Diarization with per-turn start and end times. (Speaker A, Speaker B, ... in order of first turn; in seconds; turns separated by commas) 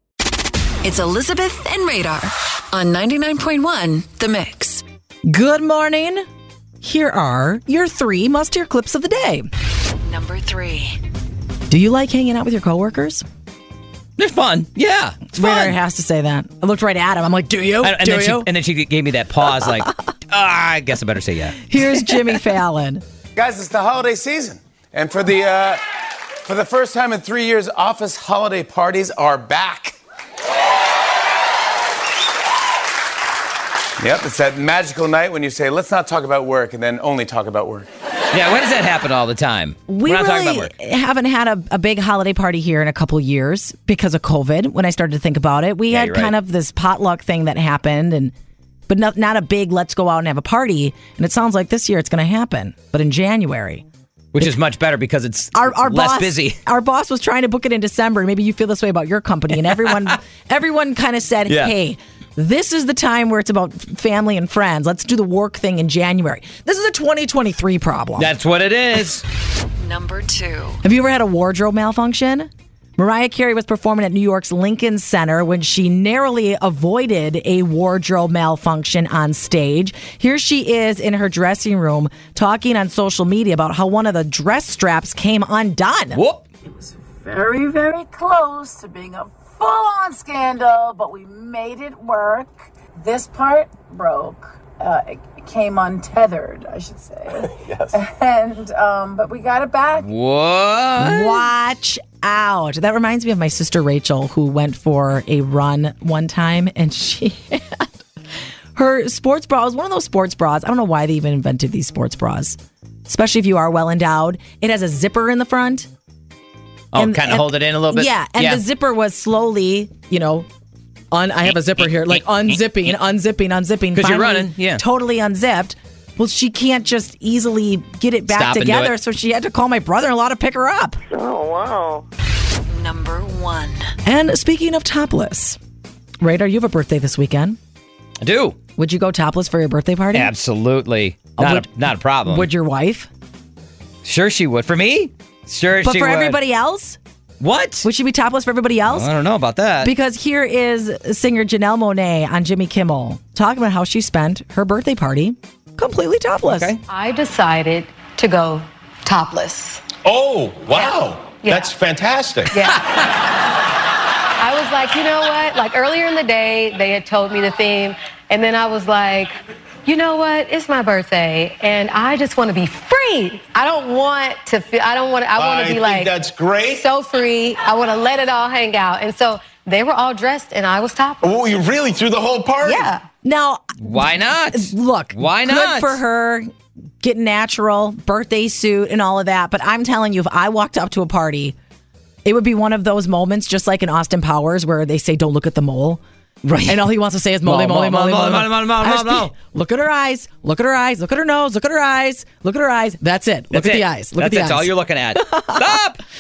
Speaker A: 0.8-4.8, Speaker B: 5.3-6.2, Speaker B: 6.8-9.5, Speaker A: 10.1-11.0, Speaker B: 11.7-13.2, Speaker C: 14.2-15.8, Speaker B: 15.3-18.5, Speaker C: 17.8-22.2, Speaker B: 21.7-23.0, Speaker D: 23.4-25.8, Speaker D: 26.4-30.0, Speaker D: 34.0-37.9, Speaker C: 38.3-40.7, Speaker B: 39.9-48.3, Speaker C: 45.9-46.3, Speaker B: 48.9-53.9, Speaker C: 54.3-56.6, Speaker B: 55.5-68.3, Speaker C: 61.5-61.7, Speaker C: 68.2-69.2, Speaker A: 69.8-70.8, Speaker B: 70.8-86.2, Speaker C: 86.1-86.4, Speaker E: 87.3-92.5, Speaker E: 93.0-96.9, Speaker E: 98.1-100.0, Speaker C: 100.0-101.5, Speaker B: 101.0-107.9, Speaker B: 108.8-115.9, Speaker C: 116.9-118.6, Speaker B: 117.0-120.5, Speaker B: 121.1-131.0, Speaker C: 124.0-124.8, Speaker C: 128.3-128.9, Speaker A: 131.1-132.0, Speaker A: 132.7-133.8, Speaker B: 134.1-135.6, Speaker B: 136.2-137.6, Speaker C: 138.2-138.6, Speaker B: 138.8-140.3, Speaker C: 140.1-142.5, Speaker B: 141.4-141.7, Speaker B: 142.3-143.1, Speaker C: 144.1-146.4, Speaker B: 145.8-147.0, Speaker C: 147.4-147.9, Speaker B: 147.8-149.1, Speaker C: 148.9-149.9, Speaker B: 149.8-156.8, Speaker C: 156.5-156.8, Speaker F: 156.9-159.9, Speaker G: 160.1-162.6, Speaker F: 161.4-161.7, Speaker F: 162.5-163.1, Speaker F: 164.4-169.3, Speaker F: 169.9-181.3, Speaker G: 175.3-176.8, Speaker G: 181.2-182.9, Speaker B: 182.6-191.6, Speaker F: 182.7-183.0, Speaker C: 183.8-186.0, Speaker B: 192.2-196.0, Speaker C: 196.5-196.8, Speaker B: 196.6-205.8, Speaker C: 197.4-199.3, Speaker C: 203.5-206.0